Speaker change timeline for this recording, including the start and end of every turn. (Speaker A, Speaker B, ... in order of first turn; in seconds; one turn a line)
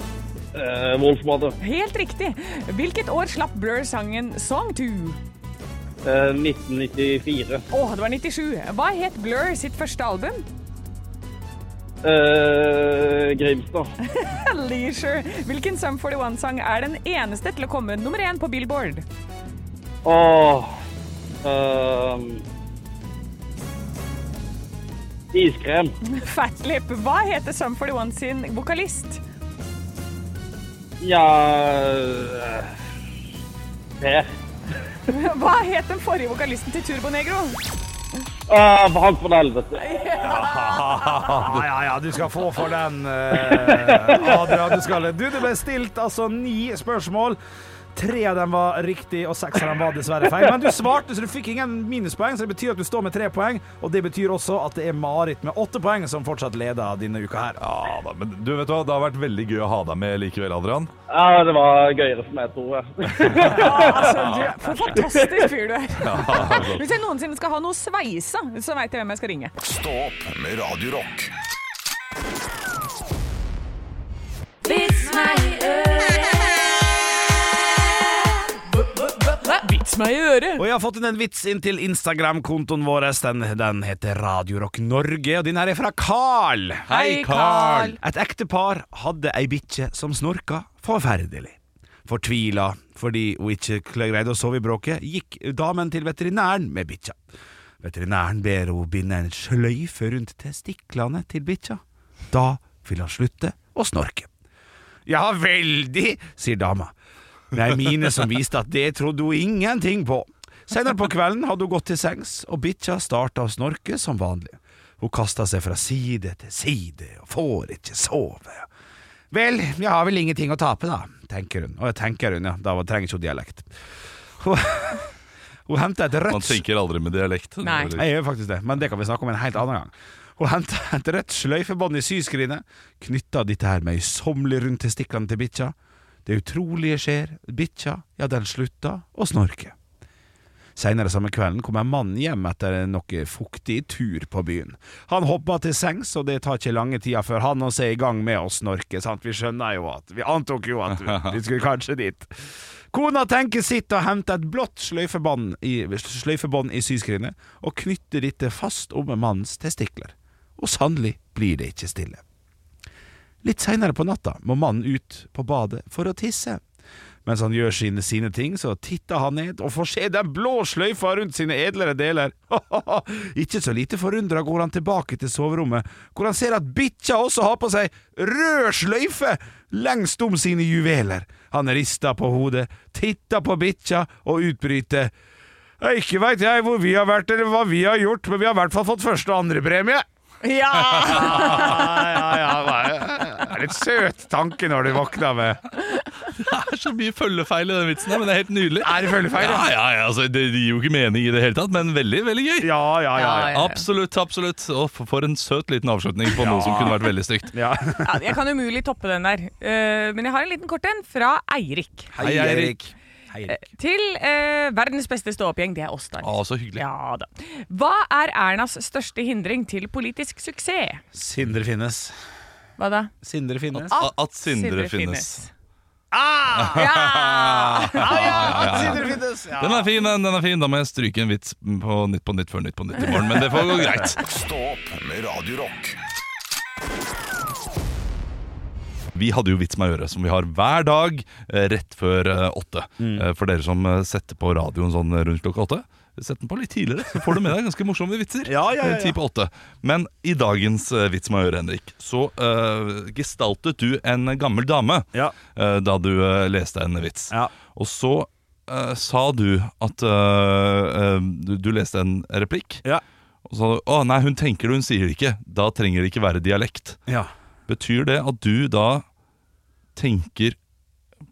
Speaker A: 0.6-1.6
Speaker B: 1.6-5.2
Speaker A: 6.0-7.6
Speaker B: 7.7-10.5
Speaker A: 12.0-13.9
Speaker B: 14.1-19.1
Speaker A: 20.1-20.7
Speaker A: 21.4-22.4
Speaker A: 25.3-25.9
Speaker B: 26.0-29.2
Speaker A: 31.0-32.7
Speaker A: 34.0-34.3
Speaker B: 35.1-37.6
Speaker A: 38.5-39.8
Speaker B: 39.8-41.2
Speaker C: 40.2-47.4
Speaker D: 40.6-41.6
Speaker A: 43.4-44.2
Speaker C: 47.9-57.6
Speaker D: 57.6-60.9
Speaker A: 61.1-64.2
Speaker B: 63.4-69.5
Speaker D: 63.9-64.5
Speaker D: 66.0-66.8
Speaker E: 69.6-71.3
Speaker B: 74.6-76.5
Speaker B: 79.0-80.7
Speaker C: 80.6-86.9
Speaker D: 86.9-88.0
Speaker B: 86.9-88.0
Speaker C: 87.9-97.2
Speaker C: 97.8-104.3
Speaker C: 105.1-106.9
Speaker C: 107.5-118.7
Speaker C: 119.3-123.7
Speaker C: 124.4-125.1
Speaker C: 125.7-126.6
Speaker D: 126.3-128.1
Speaker B: 127.6-127.9
Speaker C: 128.0-139.8
Speaker C: 140.8-162.2
Speaker D: 151.0-151.4
Speaker C: 163.4-166.6
Speaker C: 167.2-185.1
Speaker C: 185.8-190.1
Speaker B: 190.4-192.0
Speaker D: 190.9-191.7
Speaker C: 191.0-195.6
Speaker D: 196.3-202.7
Speaker C: 198.8-199.7
Speaker C: 202.6-203.6
Speaker B: 203.2-203.8
Speaker D: 203.4-207.5
Speaker C: 206.4-208.2
Speaker B: 208.0-212.1
Speaker C: 212.1-213.6
Speaker D: 212.2-212.8
Speaker B: 213.5-221.0
Speaker D: 216.2-216.8
Speaker C: 221.1-222.2
Speaker B: 222.8-223.1
Speaker C: 223.2-223.9
Speaker D: 223.8-225.4
Speaker B: 223.9-225.5
Speaker C: 226.1-226.9
Speaker D: 226.6-234.2
Speaker B: 226.7-228.9
Speaker C: 227.9-229.9
Speaker E: 234.1-236.0
Speaker D: 239.2-262.8
Speaker C: 243.0-243.3
Speaker C: 248.4-249.2
Speaker D: 263.5-267.0
Speaker D: 267.7-269.0
Speaker D: 270.0-270.6